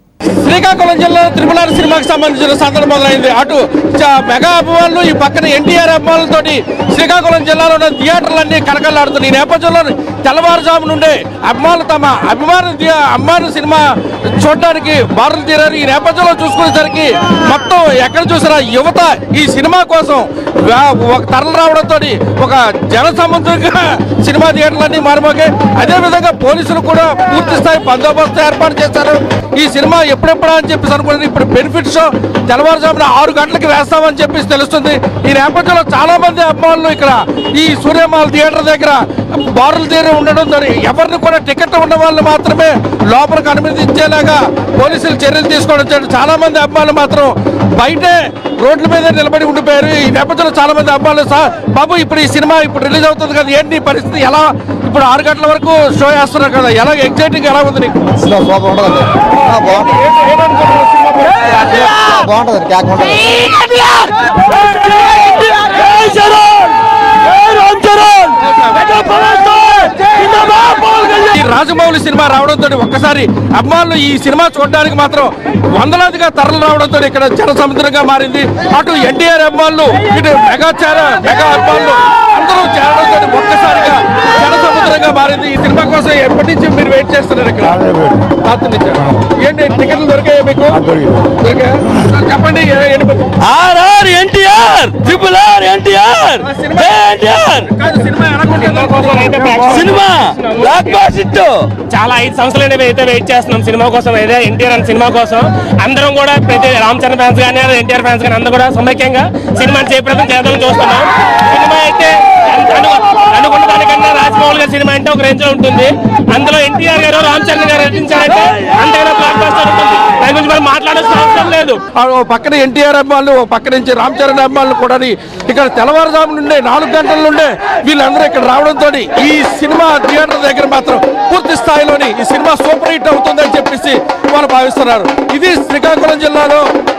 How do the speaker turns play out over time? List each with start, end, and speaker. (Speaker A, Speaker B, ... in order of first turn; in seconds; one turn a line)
Speaker A: 0.4-58.1
Speaker B: 58.2-60.0
Speaker A: 59.6-61.9
Speaker B: 61.9-63.4
Speaker C: 63.4-64.0
Speaker C: 64.7-71.3
Speaker A: 68.4-69.1
Speaker A: 69.9-93.3
Speaker C: 93.4-97.7
Speaker A: 96.4-97.0
Speaker A: 97.7-99.6
Speaker D: 98.5-100.8
Speaker C: 99.7-101.7
Speaker D: 101.9-121.8
Speaker A: 121.9-136.7